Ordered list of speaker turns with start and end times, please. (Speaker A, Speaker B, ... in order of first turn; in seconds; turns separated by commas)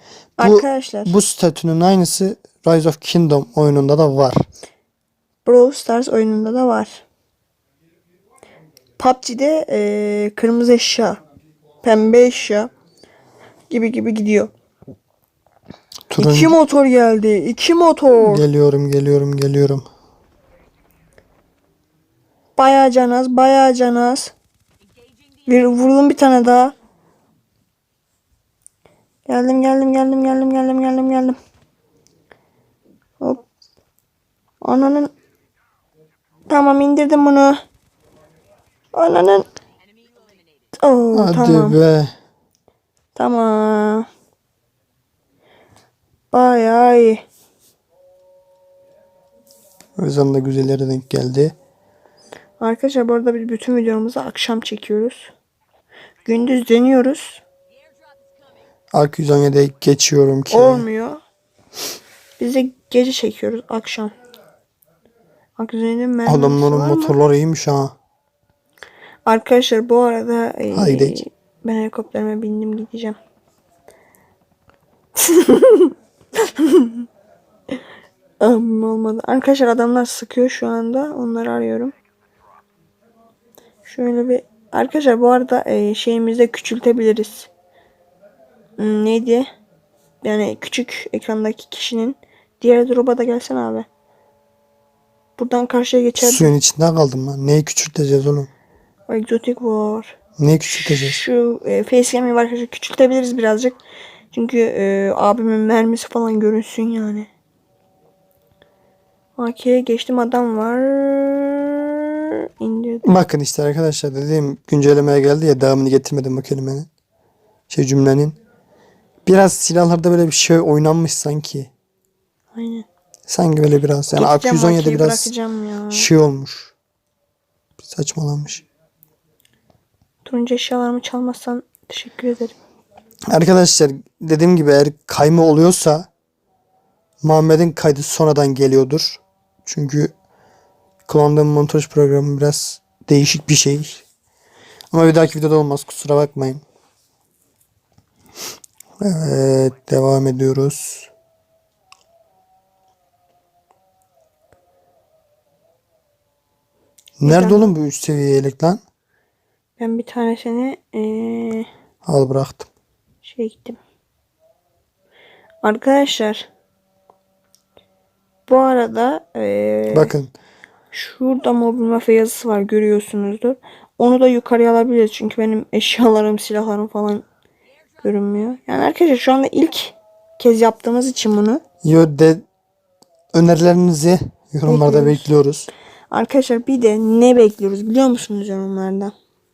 Speaker A: 0.4-1.1, Speaker B: 0.4-4.5, Speaker A: 5.5-7.0, Speaker A: 9.0-11.2, Speaker A: 11.8-12.7, Speaker A: 13.7-14.5, Speaker B: 16.1-16.6, Speaker A: 16.2-18.4, Speaker B: 18.2-19.9, Speaker A: 22.6-24.3, Speaker A: 25.5-26.8, Speaker A: 29.3-31.4, Speaker A: 34.6-35.1, Speaker A: 36.5-37.6, Speaker A: 38.9-39.5, Speaker A: 40.7-41.8, Speaker B: 41.1-42.1, Speaker A: 43.2-44.1, Speaker A: 46.3-47.2, Speaker B: 50.0-51.5, Speaker A: 52.6-55.3, Speaker A: 56.2-57.4, Speaker B: 58.9-60.9, Speaker A: 60.5-61.2, Speaker A: 62.4-64.1, Speaker A: 65.6-67.2, Speaker B: 66.3-68.0, Speaker A: 69.3-73.2, Speaker B: 70.7-71.2, Speaker A: 75.2-77.1, Speaker A: 78.4-81.9, Speaker A: 83.9-87.5, Speaker A: 88.8-89.5, Speaker A: 90.2-93.9, Speaker A: 95.4-96.5, Speaker B: 96.2-98.5, Speaker A: 99.1-100.2, Speaker B: 100.4-101.2, Speaker A: 100.8-103.8, Speaker A: 104.3-107.3, Speaker A: 109.4-113.1, Speaker B: 113.0-116.9, Speaker B: 117.7-118.4, Speaker B: 119.3-121.7, Speaker A: 122.5-122.9, Speaker B: 123.3-125.3, Speaker A: 124.1-126.1, Speaker B: 125.9-126.7, Speaker B: 127.8-128.6, Speaker A: 130.2-132.6, Speaker B: 133.3-136.1, Speaker B: 137.2-140.1, Speaker B: 141.1-144.1, Speaker B: 144.9-146.6, Speaker B: 149.0-151.1, Speaker B: 157.2-158.8, Speaker A: 157.2-157.7, Speaker A: 159.8-161.7, Speaker B: 162.0-162.7, Speaker A: 163.2-163.8, Speaker A: 165.6-166.5, Speaker A: 168.5-170.1, Speaker B: 169.9-170.3, Speaker A: 170.9-177.2, Speaker A: 178.0-181.6, Speaker B: 181.8-182.4, Speaker B: 183.3-185.7, Speaker A: 184.7-185.3, Speaker A: 186.1-189.1